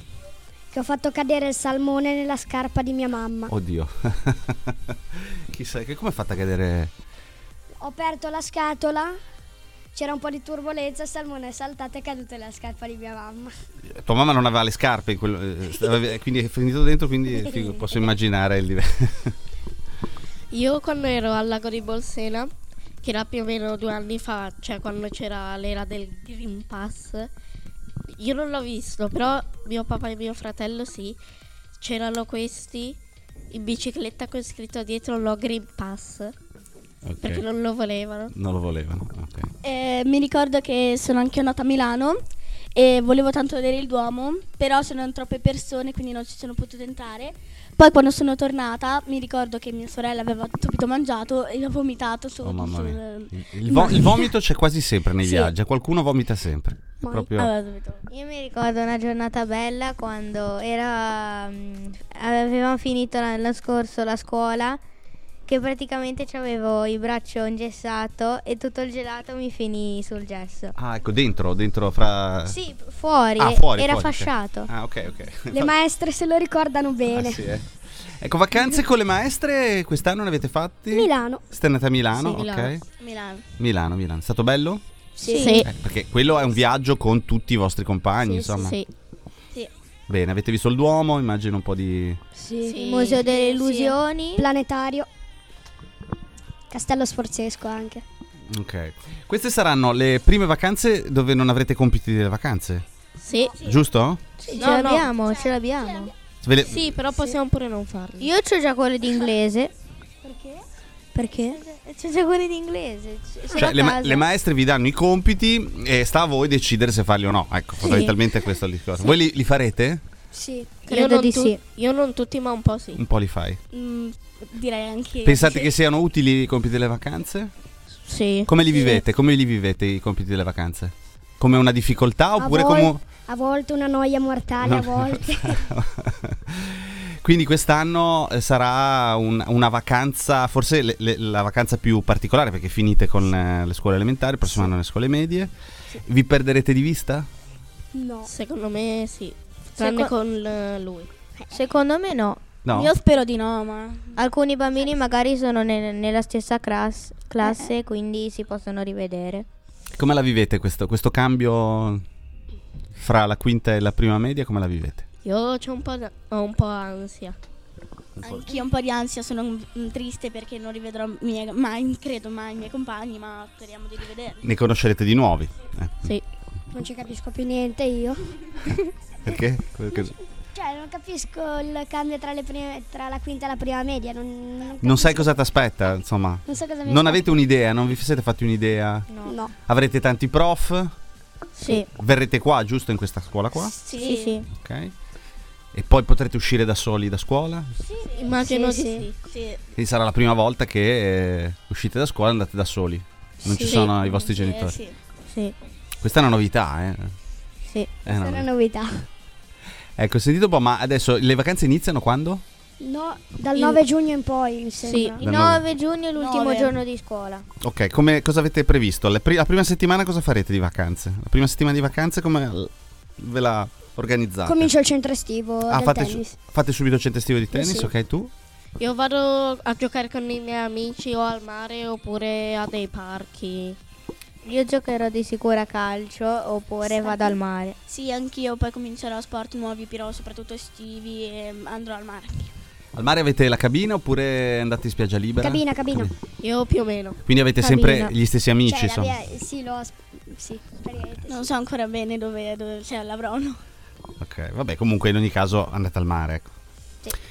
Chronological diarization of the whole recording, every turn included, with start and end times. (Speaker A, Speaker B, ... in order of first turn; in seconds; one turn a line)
Speaker A: 0.7-3.5
Speaker B: 3.5-6.9
Speaker A: 7.8-9.2
Speaker A: 9.9-13.5
Speaker B: 13.9-19.4
Speaker C: 20.5-22.5
Speaker C: 23.0-27.3
Speaker C: 28.1-31.2
Speaker C: 31.8-33.0
Speaker C: 33.5-36.4
Speaker B: 37.0-37.4
Speaker C: 37.2-38.3
Speaker B: 38.3-39.5
Speaker D: 39.6-42.2
Speaker D: 42.8-54.3
Speaker B: 52.4-57.5
Speaker A: 57.0-57.3
Speaker D: 57.4-58.1
Speaker E: 58.1-64.8
Speaker E: 65.5-70.8
Speaker B: 70.8-72.6
Speaker E: 72.5-74.7
Speaker B: 73.4-75.7
Speaker A: 75.5-77.5
Speaker B: 77.1-77.7
Speaker B: 78.2-82.8
Speaker A: 80.9-81.4
Speaker C: 82.3-82.8
Speaker D: 82.9-83.4
Speaker B: 83.6-84.8
Speaker A: 85.2-85.4
Speaker D: 85.2-85.6
Speaker E: 85.2-85.6
Speaker C: 85.3-85.7
Speaker B: 85.6-88.8
Speaker A: 88.2-88.7
Speaker C: 88.6-88.9
Speaker B: 90.1-92.2
Speaker A: 92.4-92.8
Speaker C: 92.6-93.2
Speaker E: 92.8-94.5
Speaker D: 93.2-94.0
Speaker A: 94.4-95.1
Speaker A: 96.7-98.0
Speaker B: 98.5-102.8
Speaker C: 103.2-103.6
Speaker B: 103.6-104.2
Speaker E: 104.4-106.1
Speaker C: 104.6-105.1
Speaker D: 104.7-106.1
Speaker B: 106.4-107.0
Speaker C: 106.7-108.3
Speaker E: 108.2-109.7
Speaker A: 110.2-110.7
Speaker E: 111.1-114.3
Speaker B: 113.6-120.0
Speaker C: 117.8-118.2
Speaker A: 120.3-120.7
Speaker C: 120.9-123.0
Speaker E: 120.9-121.6
Speaker B: 123.0-123.6
Speaker D: 123.7-125.7
Speaker B: 125.2-127.5
Speaker C: 128.1-129.0
Speaker B: 128.5-133.0
Speaker A: 132.4-135.6
Speaker B: 134.6-145.5
Speaker B: 146.0-147.3
Speaker A: 147.9-148.3
Speaker C: 148.2-151.1
Speaker D: 149.8-150.1
Speaker E: 151.5-152.4
Speaker B: 152.6-152.9
Speaker D: 152.7-154.2
Speaker E: 154.2-159.4
Speaker B: 159.9-162.0
Speaker B: 163.0-165.1
Speaker C: 165.2-167.4
Speaker B: 168.2-168.5
Speaker D: 168.2-174.4
Speaker B: 174.4-176.1
Speaker A: 176.7-178.2
Speaker B: 179.2-180.2
Speaker A: 180.5-185.3
Speaker B: 184.8-189.1
Speaker A: 186.5-187.3
Speaker E: 189.1-189.4
Speaker A: 189.2-189.5
Speaker B: 189.7-190.9
Speaker C: 191.6-191.9
Speaker B: 191.8-193.8
Speaker A: 193.6-194.1
Speaker D: 193.9-194.4
Speaker E: 194.0-194.5
Speaker B: 194.6-194.9
Speaker B: 195.7-197.7
Speaker D: 197.9-198.3
Speaker C: 198.1-199.2
Speaker A: 198.4-199.0
Speaker D: 199.1-199.6
Speaker B: 199.8-204.8
Speaker E: 203.5-203.8
Speaker C: 203.6-204.0
Speaker D: 204.2-205.0
Speaker B: 206.0-207.1
Speaker A: 208.1-209.1
Speaker B: 208.1-208.5
Speaker B: 210.0-212.4
Speaker A: 212.8-215.2
Speaker E: 214.8-217.5
Speaker B: 215.2-215.7
Speaker D: 216.2-216.8
Speaker B: 217.6-224.7
Speaker A: 224.4-226.3
Speaker B: 225.7-228.3
Speaker A: 227.5-227.9
Speaker C: 228.8-233.8
Speaker E: 234.4-237.8
Speaker D: 236.9-242.5
Speaker B: 242.9-246.1
Speaker A: 245.4-246.1
Speaker C: 246.4-247.2
Speaker B: 247.3-249.1
Speaker E: 247.6-248.2
Speaker A: 248.7-251.5
Speaker D: 251.3-253.6
Speaker B: 254.2-256.5